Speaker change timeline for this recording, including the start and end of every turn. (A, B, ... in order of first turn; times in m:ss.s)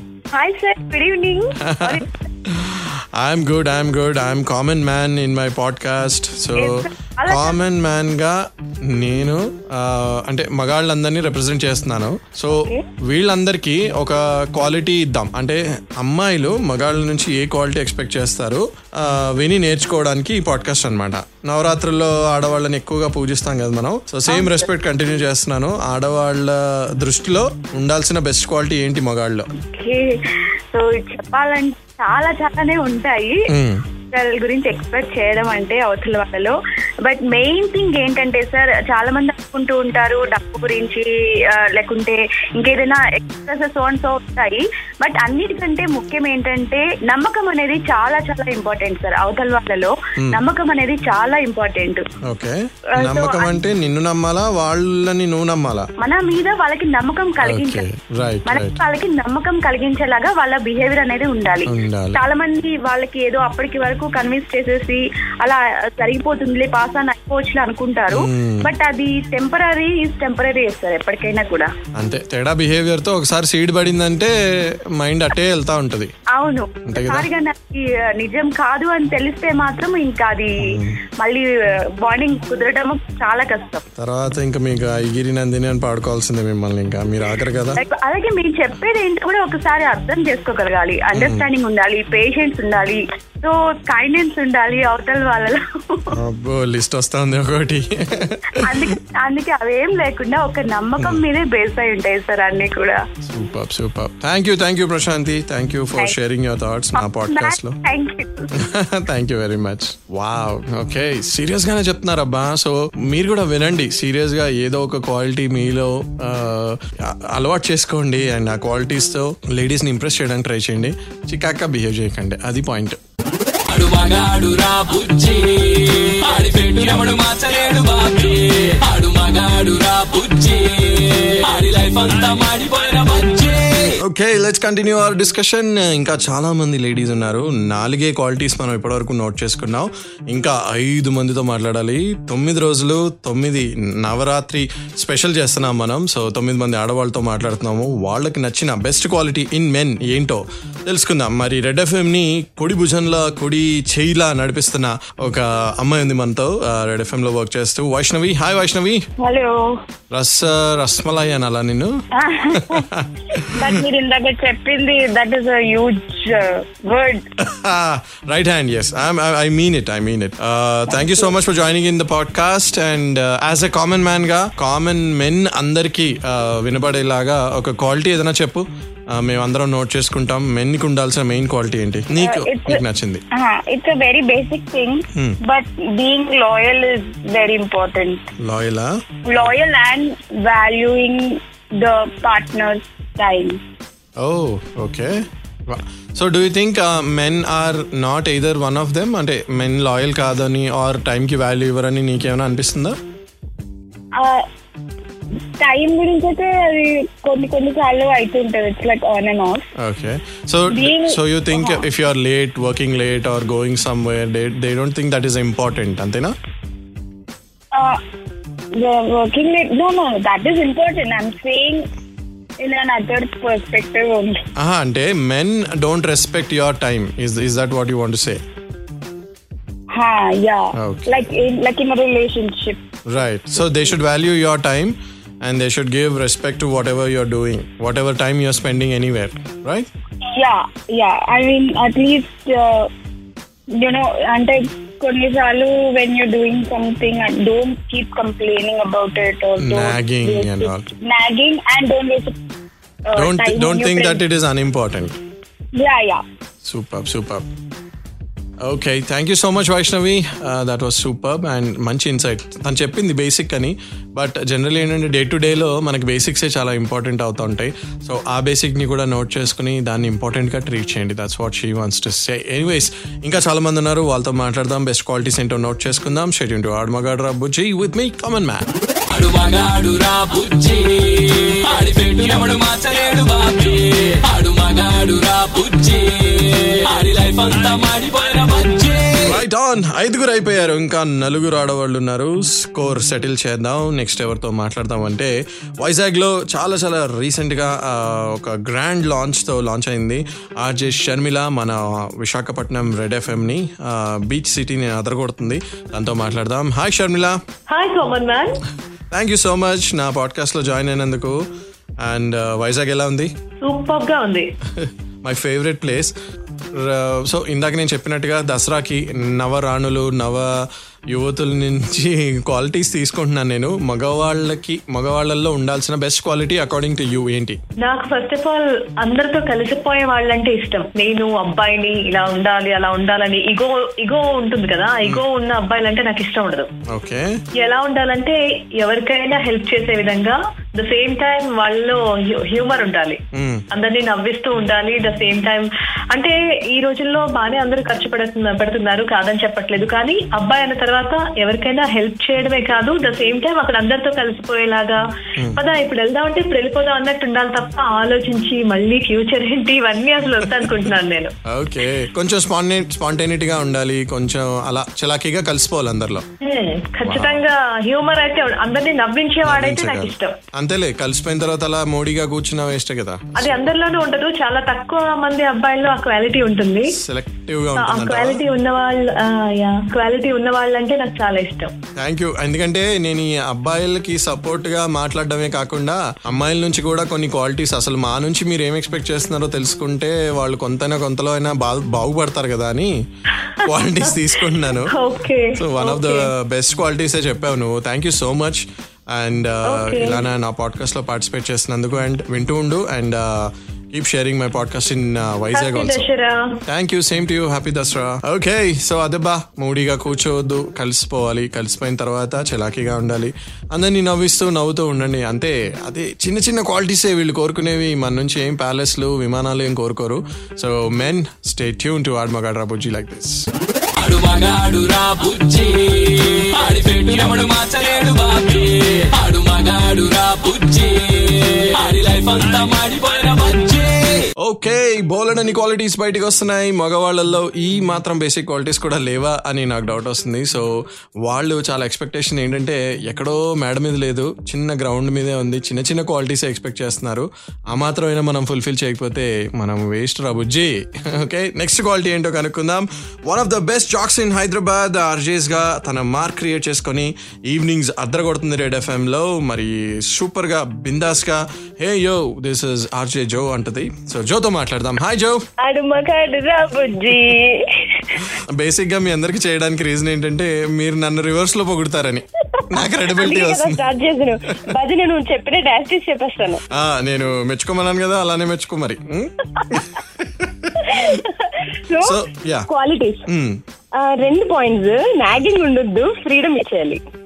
0:00.3-0:02.1 A
0:01.6-0:29.5 B
0:06.5-0:07.6 A
0:12.6-0:12.8 A
0:24.3-0:24.6 A
0:29.5-0:30.0 A
0:30.7-0:33.4 A
0:33.5-0:33.8 B
0:34.1-0:36.5 A
0:37.0-0:52.0 A
0:52.2-0:55.9 B
0:52.9-0:53.6 A
0:56.0-0:57.8 A
0:57.4-0:58.8 B
0:58.5-1:11.7 A
1:01.6-1:02.2 B
1:08.1-1:08.7 B
1:12.0-1:16.1 B
1:16.3-1:20.6 A
1:16.9-1:17.3 B
1:20.6-1:21.0 B
1:21.2-1:21.4 A
1:22.0-1:23.8 A
1:24.0-1:27.8 B
1:27.8-1:36.1 A
1:31.1-1:31.4 B
1:36.1-1:38.8 B
1:38.6-1:43.0 A
1:43.2-1:47.8 B
1:47.0-1:48.5 A
1:48.6-2:03.0 B
2:03.7-2:14.0 C
2:14.0-2:39.0 B
2:39.2-2:39.8 D
2:40.1-2:41.9 B
2:42.1-2:47.2 D
2:42.5-2:43.7 B
2:47.4-3:03.2 B
2:50.9-2:51.3 D
3:02.1-3:08.2 D
3:08.4-3:09.5 B
3:09.2-3:13.6 D
3:14.2-3:23.0 B
3:24.2-3:24.4 D
3:25.6-3:29.6 D
3:29.8-3:36.3 B
3:30.7-3:31.8 D
3:37.7-3:38.0 D
3:38.8-3:41.8 D
3:42.6-3:44.4 D
3:44.6-3:48.4 B
3:49.9-3:52.8 D
3:50.8-3:51.3 B
3:53.1-3:59.9 B
4:00.3-4:02.9 D
4:03.7-4:12.4 D
4:09.6-4:10.9 B
4:13.1-4:14.2 D
4:13.1-4:15.2 B
4:15.8-4:16.2 D
4:16.6-4:17.4 B
4:18.6-4:38.7 B
4:39.1-4:49.4 C
4:49.3-5:07.4 B
5:07.7-5:08.6 E
5:09.1-5:11.4 B
5:12.0-5:13.3 B
5:13.6-5:14.5 E
5:14.7-5:16.1 B
5:16.7-5:20.5 B
5:21.1-5:27.6 B
5:27.8-5:36.7 E
5:36.9-5:37.3 B
5:37.6-5:43.2 E
5:43.3-5:43.6 B
5:43.7-5:55.0 E
5:55.5-6:01.3 E
6:01.5-6:06.2 B
6:06.4-6:10.3 E
6:07.0-6:07.4 B
6:09.4-6:13.7 B
6:13.4-6:16.9 E
6:16.9-6:18.4 B
6:17.8-6:21.7 E
6:22.0-6:32.9 B
6:33.6-6:34.9 B
6:34.1-6:36.3 E
6:35.5-6:46.1 B
6:39.7-6:40.2 E
6:45.5-6:46.6 E
6:46.7-7:03.5 B
7:04.0-7:14.3 C
7:14.4-7:20.6 B
7:21.2-7:45.4 B
7:45.6-7:48.2 F
7:48.3-7:53.9 B
7:53.1-7:56.6 F
7:56.7-8:01.2 B
8:00.8-8:03.2 F
8:02.0-8:02.7 B
8:03.3-8:03.6 B
8:03.9-8:07.0 F